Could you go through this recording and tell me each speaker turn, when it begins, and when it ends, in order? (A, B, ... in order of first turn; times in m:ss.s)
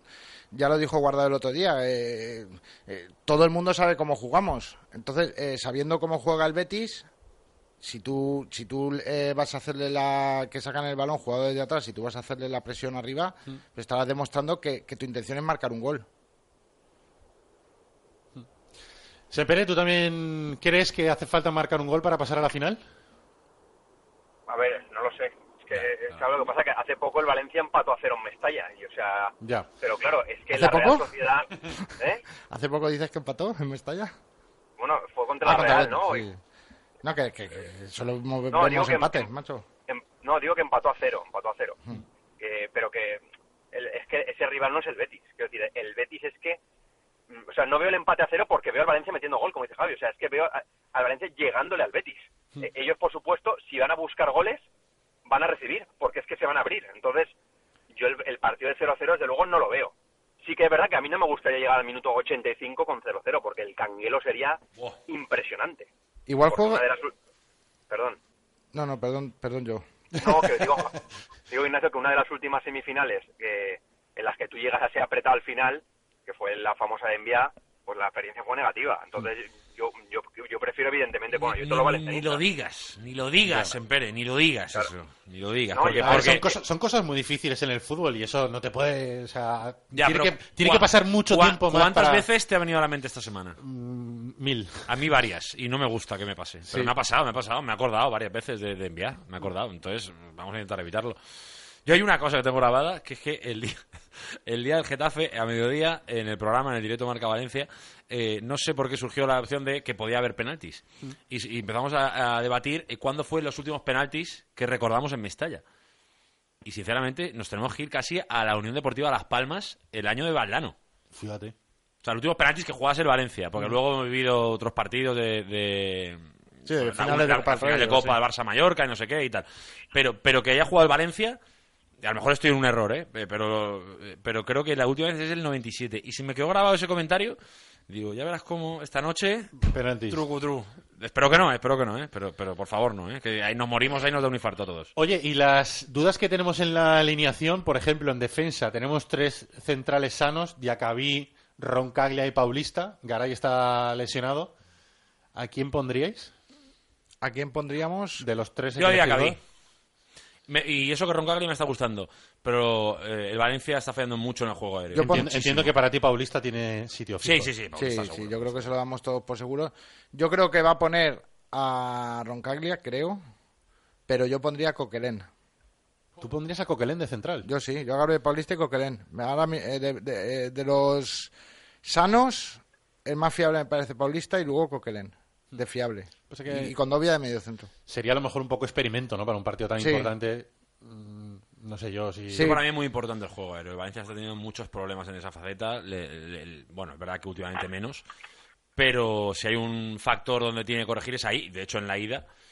0:00.5-0:07.1 A
0:07.8-0:16.1 A
0:19.3-0:22.8 B
0:24.5-0:32.2 C
0:29.4-0:29.7 B
0:30.5-0:31.3 A
0:32.5-0:34.1 A
0:34.8-0:36.3 C
0:35.4-0:36.4 A
0:37.0-0:39.7 A
0:38.5-0:39.3 C
0:39.9-0:41.8 C
0:42.4-0:46.6 C
0:47.3-0:54.6 C
0:55.3-0:57.3 C
0:57.9-1:05.9 C
1:06.3-1:06.8 A
1:06.5-1:07.1 C
1:07.9-1:08.2 C
1:08.7-1:10.7 A
1:10.2-1:10.9 C
1:11.5-1:22.4 C
1:21.3-1:26.4 D
1:23.5-1:23.8 B
1:25.7-1:26.5 C
1:26.0-1:32.3 B
1:29.9-1:33.6 D
1:33.6-1:34.9 B
1:34.9-1:41.2 D
1:41.8-1:43.8 D
1:44.5-1:55.6 D
1:56.6-2:00.8 D
2:01.1-2:01.5 B
2:02.0-2:11.4 D
2:06.7-2:08.2 A
2:12.0-2:17.4 D
2:17.9-2:24.9 D
2:19.6-2:20.2 B
2:25.0-2:34.5 B
2:35.4-2:36.3 B
2:37.2-2:38.2 A
2:38.2-2:39.4 B
2:38.8-2:39.4 D
2:40.5-2:45.7 D
2:44.9-2:45.3 A
2:45.0-2:47.5 B
2:47.2-2:48.7 D
2:47.8-2:53.2 A
2:54.1-2:55.3 A
2:56.2-2:57.5 B
2:57.4-3:01.3 A
3:01.8-3:07.7 A
3:06.3-3:06.8 B
3:07.9-3:12.6 B
3:09.8-3:10.1 A
3:12.3-3:12.6 A
3:12.4-3:18.0 D
3:18.8-3:22.2 D